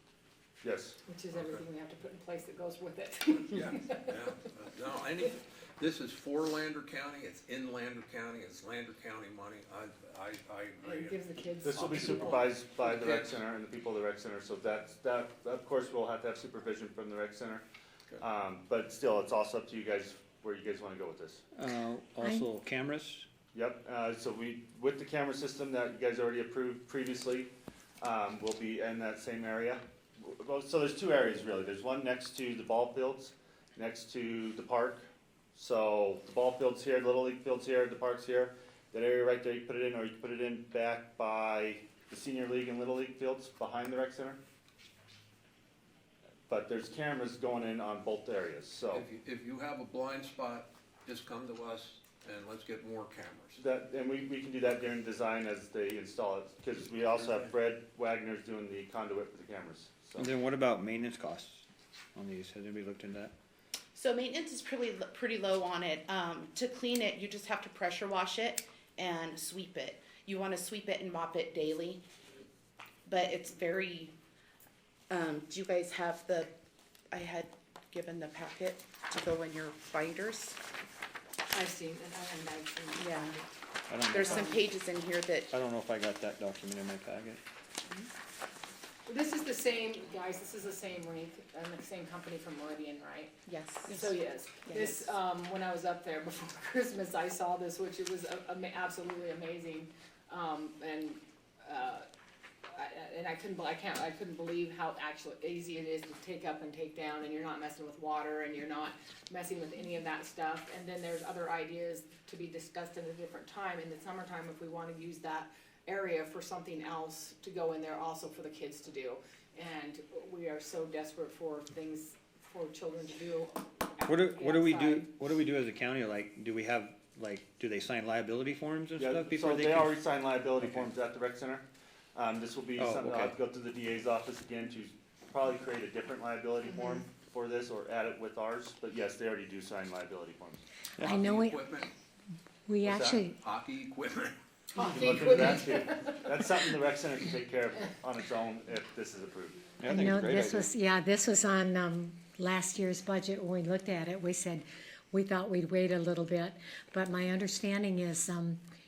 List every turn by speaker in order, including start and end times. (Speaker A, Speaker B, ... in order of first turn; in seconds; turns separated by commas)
Speaker A: 0.6-1.0, Speaker B: 1.1-4.3, Speaker C: 1.3-1.6, Speaker C: 3.5-13.4, Speaker B: 10.8-12.4, Speaker A: 11.6-17.6, Speaker A: 18.2-21.4, Speaker D: 21.5-23.3, Speaker E: 22.2-22.5, Speaker A: 23.5-44.4, Speaker A: 46.5-49.0, Speaker C: 48.9-53.6, Speaker A: 53.6-60.3, Speaker C: 57.1-57.5, Speaker D: 60.2-63.3, Speaker F: 63.9-72.0, Speaker F: 73.0-74.1, Speaker F: 75.1-76.5, Speaker F: 77.1-80.6, Speaker B: 81.5-83.5, Speaker F: 83.0-83.3, Speaker D: 83.9-84.5, Speaker F: 84.1-85.5, Speaker B: 84.2-84.6, Speaker D: 85.5-87.4, Speaker B: 89.0-102.1, Speaker F: 93.5-93.8, Speaker B: 102.7-125.1, Speaker D: 124.0-130.9, Speaker A: 129.0-140.6, Speaker D: 132.8-133.4, Speaker D: 141.0-141.2, Speaker C: 141.0-141.9, Speaker E: 141.0-141.7, Speaker E: 142.7-143.4, Speaker C: 142.9-144.3, Speaker B: 144.7-146.5, Speaker A: 144.8-149.7, Speaker D: 149.8-150.7, Speaker E: 149.9-158.6